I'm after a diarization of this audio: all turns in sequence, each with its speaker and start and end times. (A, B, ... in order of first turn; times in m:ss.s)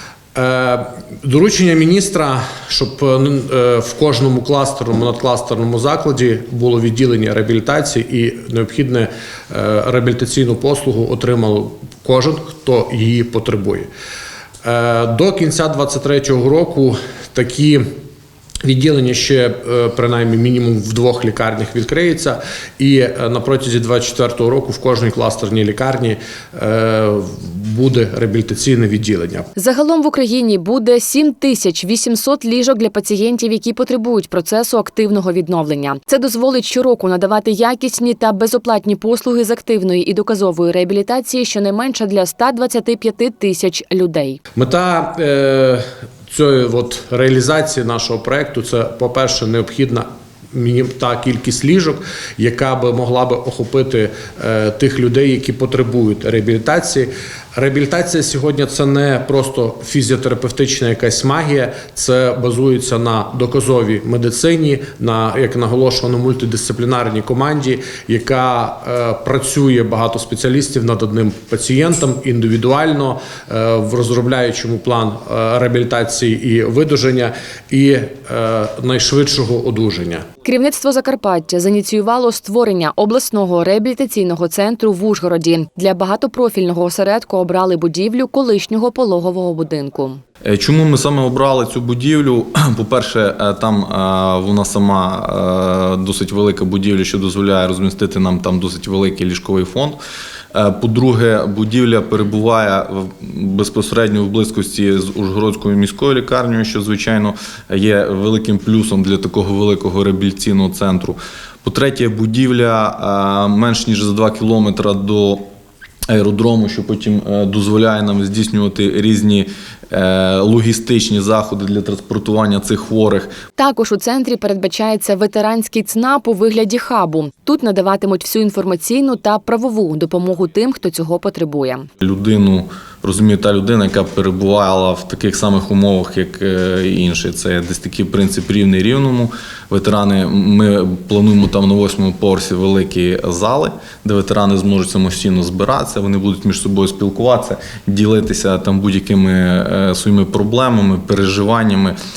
0:00.3-0:13.9 A
0:14.6-0:17.8 A
0:18.6-0:29.5 A
0:29.6-0:44.4 B
0:44.6-1:20.2 A
1:20.4-1:30.2 B
1:30.4-1:40.0 C
1:40.5-1:55.4 C
1:56.1-2:03.3 C
2:03.6-2:11.9 B
2:12.0-2:32.0 C